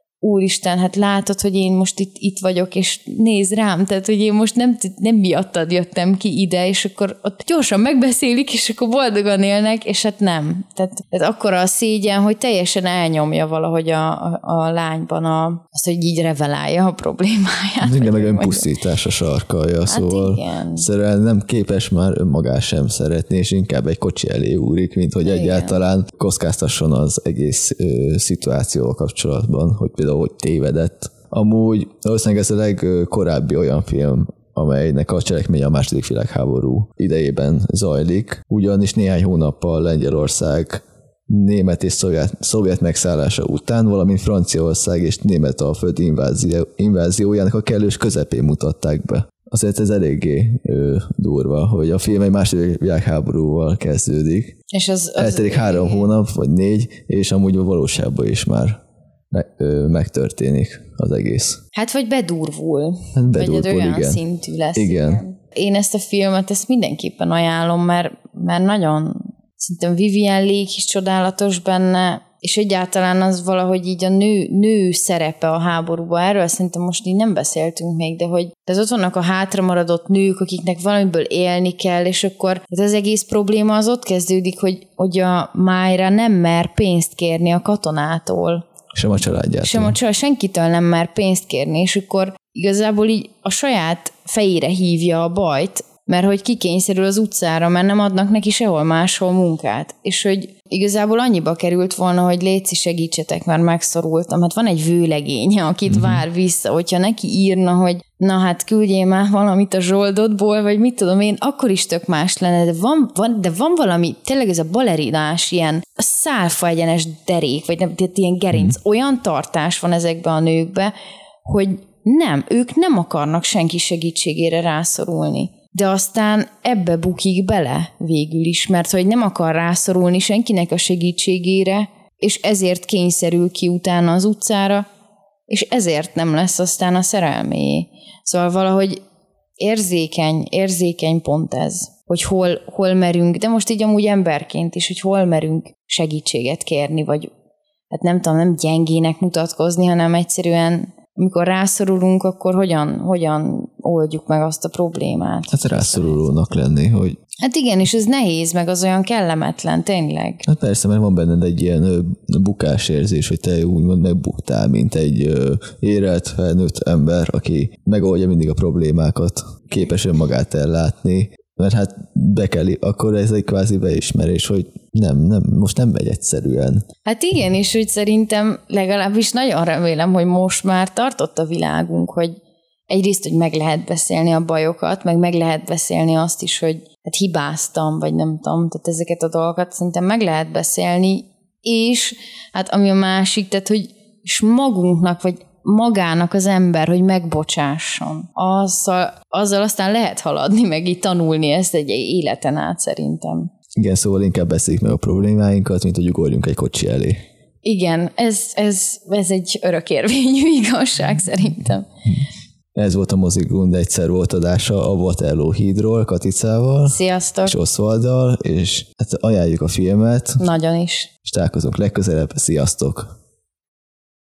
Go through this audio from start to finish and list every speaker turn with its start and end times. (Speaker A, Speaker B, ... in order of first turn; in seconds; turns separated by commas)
Speaker A: 0.2-18.7, Speaker B: 17.8-54.5, Speaker A: 19.9-20.9, Speaker A: 25.2-25.8, Speaker A: 54.7-56.1, Speaker B: 55.2-61.6, Speaker A: 61.7-88.6, Speaker B: 63.1-64.2, Speaker B: 64.7-65.2, Speaker B: 88.9-90.0, Speaker A: 89.6-120.9, Speaker B: 105.9-106.2, Speaker A: 121.4-134.8, Speaker A: 135.5-139.0, Speaker A: 139.6-147.3, Speaker A: 147.9-156.3, Speaker B: 155.5-157.2, Speaker A: 157.4-160.4, Speaker B: 160.4-176.8, Speaker A: 177.0-182.4, Speaker A: 182.9-203.5, Speaker B: 203.7-207.2, Speaker A: 207.6-211.9, Speaker B: 212.7-220.4, Speaker A: 216.8-217.6, Speaker A: 220.4-221.1, Speaker B: 221.2-223.1